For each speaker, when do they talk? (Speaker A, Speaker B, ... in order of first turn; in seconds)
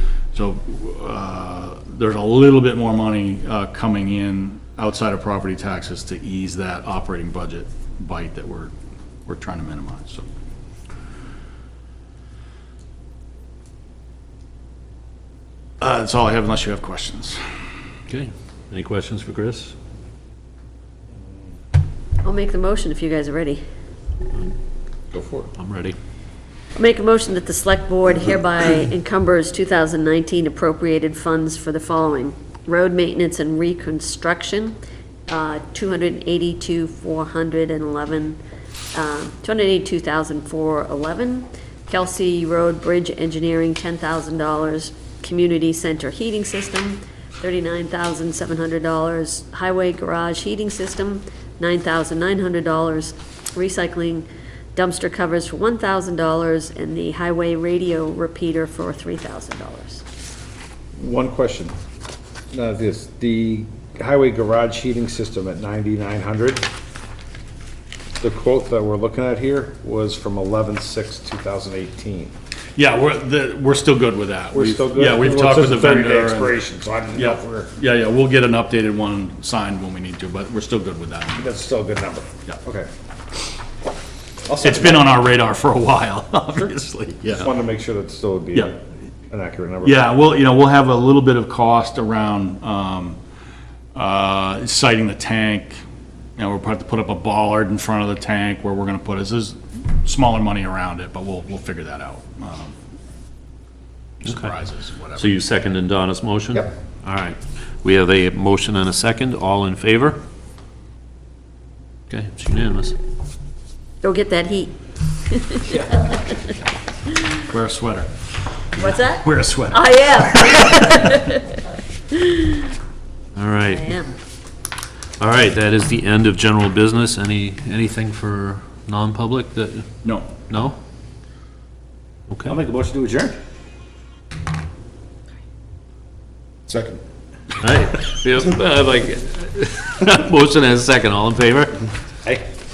Speaker A: 0.3-8.7, 9.3-10.3, 15.8-17.4, 72.8-76.5, 77.2-81.5, 84.6-87.5, 89.8-93.2, 94.0-95.8, 96.4-102.8, 104.2-105.3, 117.5-118.1, 118.8-121.0, 130.0-130.3
Speaker B: 18.1-19.8, 25.6-26.0, 104.2-104.5, 105.2-110.2, 112.1-113.0, 123.3-123.9, 125.2-129.9, 130.5-130.8, 132.3-132.6, 137.6-141.8
Speaker C: 22.2-23.6, 26.8-34.8, 35.3-38.4, 38.9-60.0, 114.0-114.7, 115.3-116.2, 118.8-121.5, 122.1-122.7, 123.7-124.1
Speaker D: 25.1-25.5, 61.0-61.8, 62.5-66.7, 68.2-72.3, 74.5-77.7, 81.4-82.9, 84.5-85.2, 87.3-88.8, 89.3-90.0, 132.4-133.4, 136.7-137.0